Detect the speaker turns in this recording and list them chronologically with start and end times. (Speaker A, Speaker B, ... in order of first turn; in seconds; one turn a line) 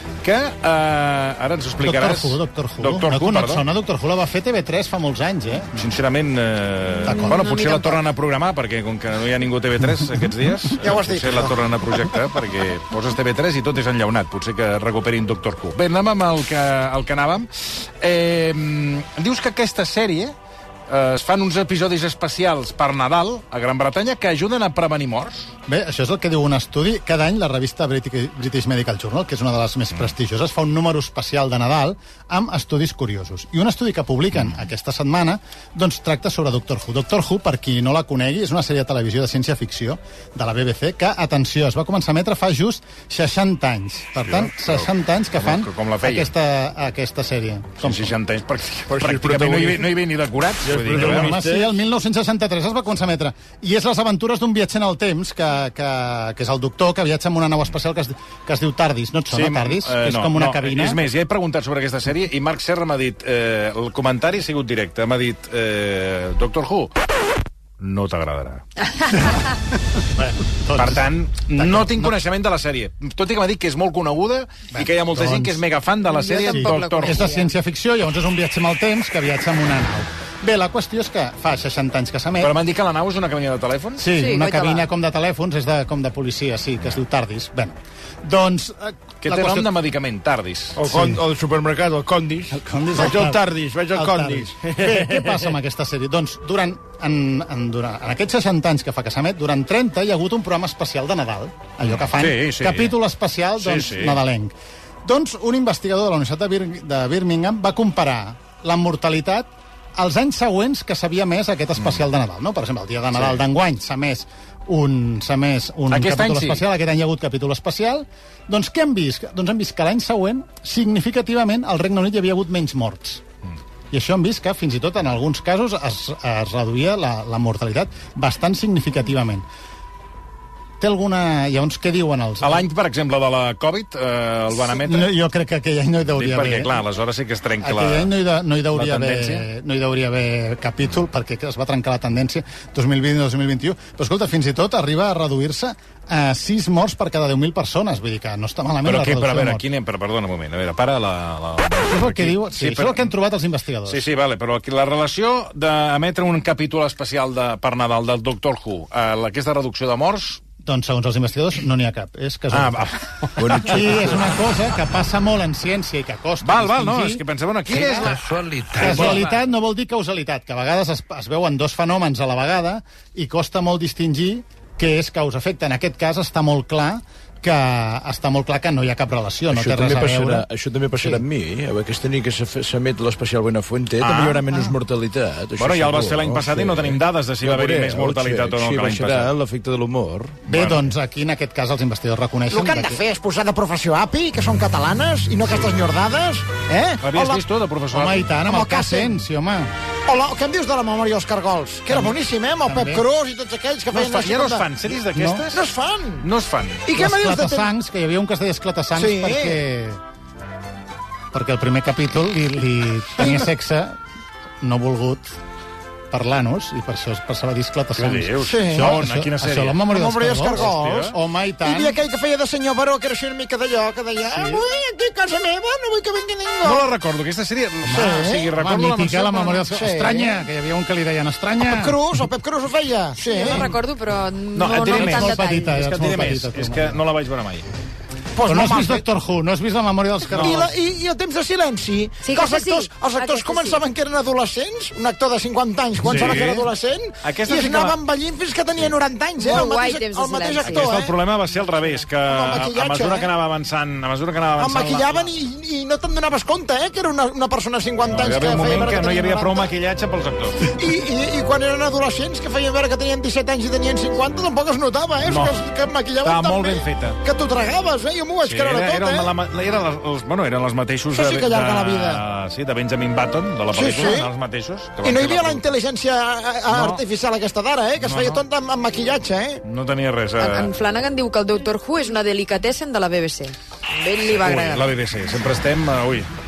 Speaker A: 0.2-3.6
Speaker B: 1.8-5.9
Speaker A: 5.7-20.3
Speaker B: 7.0-7.5
Speaker C: 7.0-8.0
Speaker D: 10.8-11.6
Speaker A: 20.9-25.5
Speaker B: 25.7-48.1
Speaker A: 44.2-46.3
Speaker A: 47.8-51.3
Speaker E: 48.9-49.9
Speaker E: 50.6-51.7
Speaker B: 50.9-61.1
Speaker A: 59.3-66.9
Speaker A: 67.8-68.6
Speaker B: 70.1-72.2
Speaker A: 70.8-77.3
Speaker B: 74.7-75.6
Speaker C: 76.1-77.5
Speaker B: 76.5-82.5
Speaker A: 82.4-84.1
Speaker B: 84.0-89.7
Speaker C: 84.1-84.9
Speaker A: 89.2-90.8
Speaker E: 90.7-95.5
Speaker B: 90.9-91.2
Speaker B: 92.5-123.2
Speaker A: 102.0-102.9
Speaker A: 103.6-104.2
Speaker A: 113.1-113.4
Speaker A: 115.9-116.6
Speaker B: 123.9-129.4
Speaker B: 130.8-132.7
Speaker A: 132.4-135.1
Speaker B: 134.6-136.8
Speaker A: 136.2-138.1
Speaker B: 137.6-149.6
Speaker A: 138.7-139.4
Speaker A: 148.8-153.1
Speaker B: 151.9-154.1
Speaker A: 153.9-160.4
Speaker B: 160.6-180.4
Speaker A: 162.5-164.1
Speaker F: 163.4-164.2
Speaker A: 166.4-168.2
Speaker F: 167.9-169.3
Speaker A: 168.8-169.2
Speaker F: 179.5-190.4
Speaker A: 184.0-184.6
Speaker A: 185.6-189.3
Speaker B: 190.4-193.0
Speaker A: 190.5-190.9
Speaker D: 192.5-197.4
Speaker A: 197.0-198.3
Speaker B: 197.9-199.7
Speaker D: 198.4-199.2
Speaker D: 200.1-204.7
Speaker B: 201.9-203.0
Speaker A: 203.9-205.7
Speaker B: 205.0-205.4
Speaker D: 205.5-206.3
Speaker A: 206.2-206.9
Speaker D: 206.8-207.7
Speaker B: 206.9-210.0
Speaker D: 208.9-209.6
Speaker B: 211.3-214.0
Speaker B: 214.6-215.3
Speaker B: 216.1-222.0
Speaker A: 217.9-219.8
Speaker D: 218.4-219.0
Speaker D: 219.9-221.1
Speaker A: 220.5-221.2
Speaker D: 221.6-226.9
Speaker B: 224.3-224.6
Speaker A: 226.6-229.6
Speaker B: 227.8-232.0
Speaker D: 227.9-228.5
Speaker D: 229.5-230.4
Speaker D: 231.6-233.7
Speaker C: 233.2-235.7
Speaker A: 234.5-237.7
Speaker B: 234.9-237.0
Speaker D: 238.3-239.0
Speaker B: 238.4-240.7
Speaker A: 240.3-240.6
Speaker D: 240.4-251.1
Speaker C: 242.2-243.8
Speaker A: 246.0-246.7
Speaker A: 247.2-247.9
Speaker C: 249.4-250.9
Speaker A: 250.6-255.3
Speaker D: 252.2-253.3
Speaker D: 254.6-259.7
Speaker A: 258.1-260.7
Speaker D: 260.7-269.3
Speaker A: 265.2-265.6
Speaker A: 266.2-267.2
Speaker A: 268.4-275.6
Speaker D: 271.1-272.2
Speaker D: 273.7-274.3
Speaker D: 275.0-279.6
Speaker A: 276.7-277.0
Speaker A: 278.0-278.4
Speaker A: 279.6-280.7
Speaker C: 280.4-284.9
Speaker A: 284.2-286.3